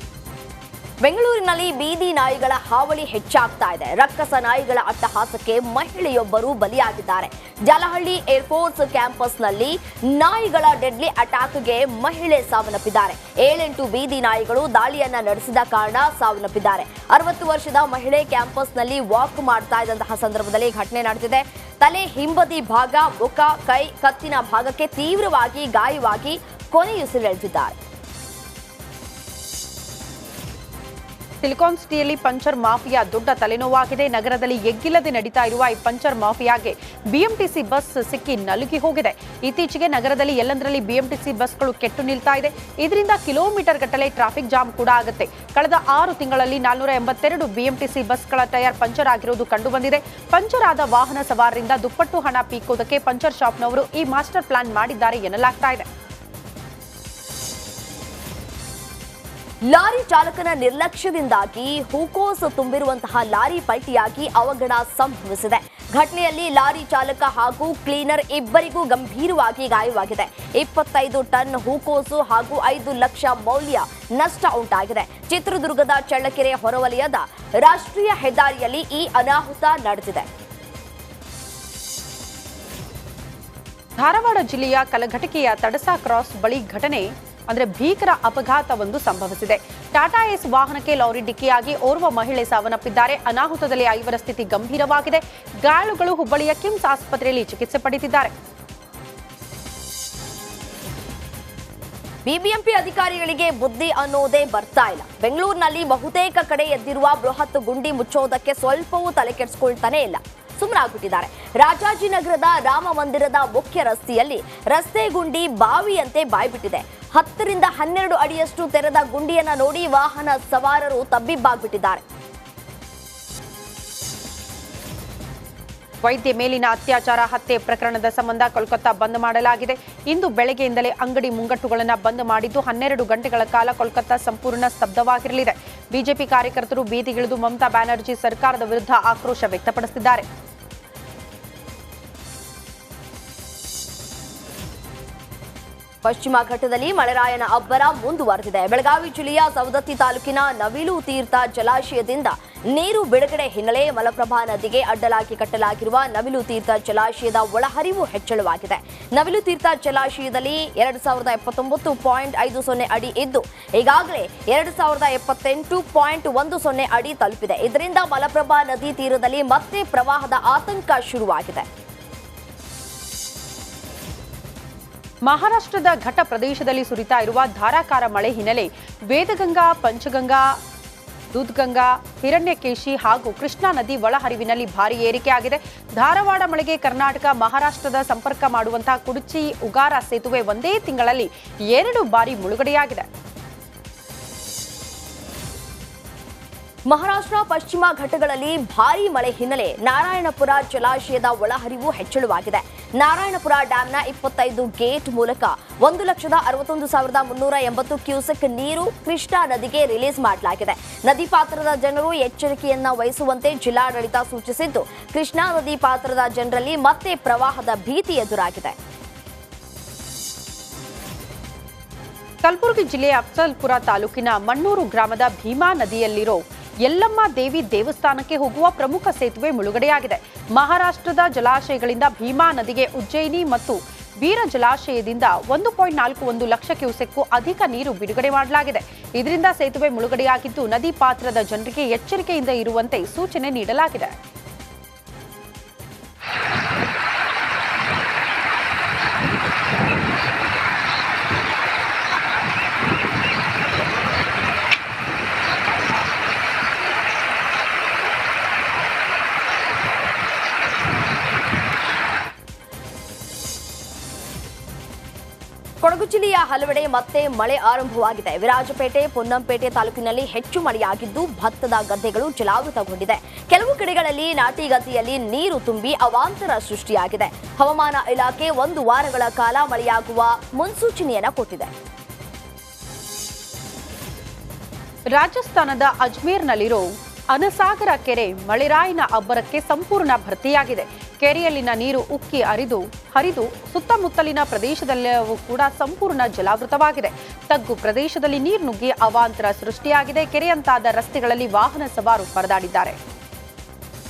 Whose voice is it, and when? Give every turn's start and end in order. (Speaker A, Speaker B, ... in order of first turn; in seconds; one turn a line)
Speaker A: 1.0-27.8
Speaker B: 31.4-55.9
Speaker A: 59.7-80.3
Speaker B: 84.0-98.3
Speaker A: 102.2-122.0
Speaker B: 126.0-140.2
Speaker A: 146.0-171.7
Speaker B: 175.2-180.6
Speaker B: 181.3-193.1
Speaker A: 196.9-218.8
Speaker B: 222.4-244.1
Speaker A: 265.8-281.7
Speaker B: 285.1-303.0